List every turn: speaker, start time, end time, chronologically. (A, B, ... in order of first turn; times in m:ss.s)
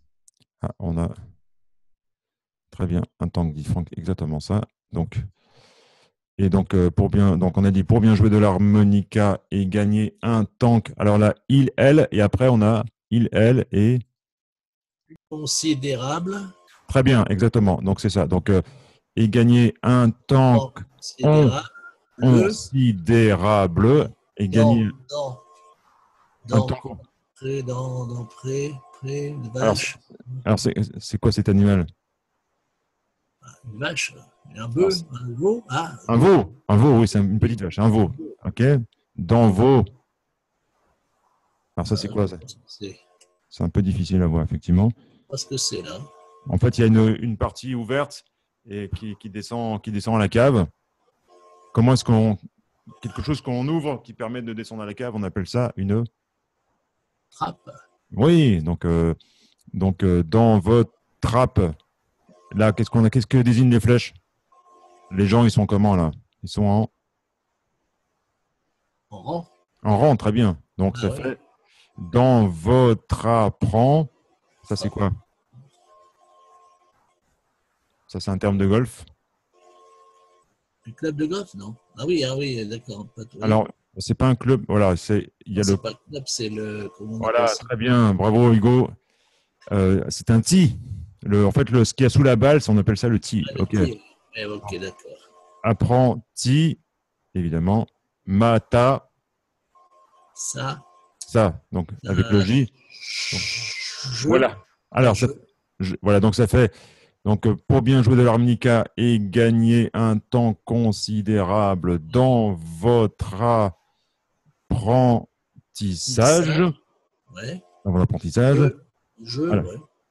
0:00.6-0:01.1 A
0:02.7-0:05.2 A
0:06.4-0:14.0 A
0:15.3-0:16.4 B
0:16.9-0:18.6 A
0:19.2-0:21.6 A
0:20.5-0:22.6 B
0:22.2-0:24.9 A
0:24.5-0:25.4 B
0:26.4-0:30.4 B
0:26.5-0:27.0 A
0:29.6-0:31.9 A
0:33.4-0:36.3 B
0:36.1-0:39.9 A
0:41.8-0:42.4 A
0:41.9-0:43.0 B
0:43.5-0:44.9 A
0:45.3-0:46.1 B
0:46.5-0:50.7 A
0:51.7-0:52.4 A
0:53.0-0:56.0 A
0:57.3-0:57.8 B
0:58.1-0:59.1 A
0:59.7-1:01.7 A
1:02.5-1:04.1 A
1:05.1-1:06.9 A
1:09.1-1:09.5 B
1:09.8-1:11.4 A
1:10.9-1:11.3 B
1:12.0-1:14.1 A
1:14.6-1:15.1 A
1:18.1-1:19.0 A
1:20.8-1:23.6 B
1:23.4-1:25.8 A
1:25.6-1:27.7 B
1:27.2-1:28.9 A
1:29.7-1:33.9 A
1:33.4-1:35.2 B
1:35.6-1:36.8 A
1:37.3-1:39.1 A
1:40.4-1:40.8 B
1:41.3-1:42.7 A
1:42.0-1:45.4 B
1:43.3-1:43.6 A
1:44.2-1:46.7 A
1:47.2-1:53.8 A
1:54.7-1:56.7 A
1:56.0-1:56.6 B
1:57.3-1:57.6 B
1:57.8-1:58.7 A
1:58.5-1:59.8 B